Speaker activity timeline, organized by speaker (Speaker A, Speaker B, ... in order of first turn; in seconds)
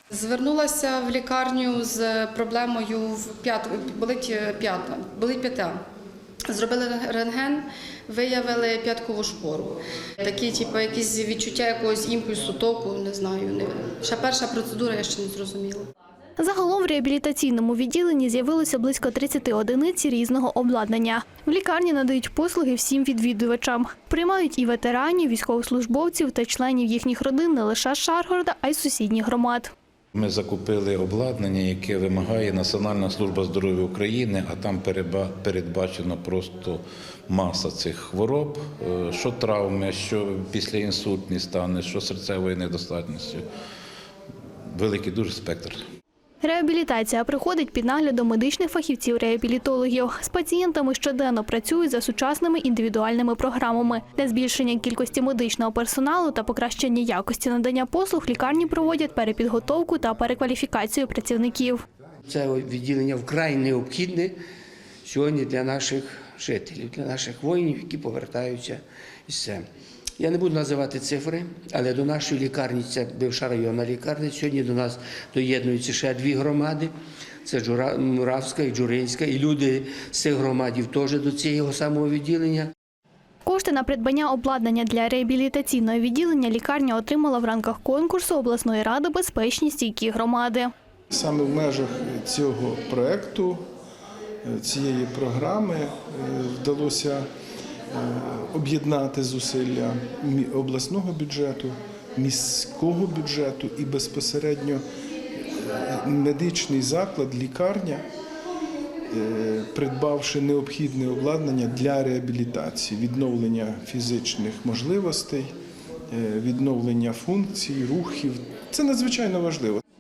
Speaker A: 0.1-5.8, 6.5-15.9
Speaker B: 16.4-29.7, 46.4-61.8, 83.5-90.7
Speaker C: 30.1-43.5, 44.7-45.8
Speaker D: 62.3-64.3, 65.0-69.7, 70.2-76.9, 77.5-82.7
Speaker E: 91.1-93.6, 94.4-97.3, 97.9-104.8, 105.7-108.0, 109.1-115.5, 116.1-119.8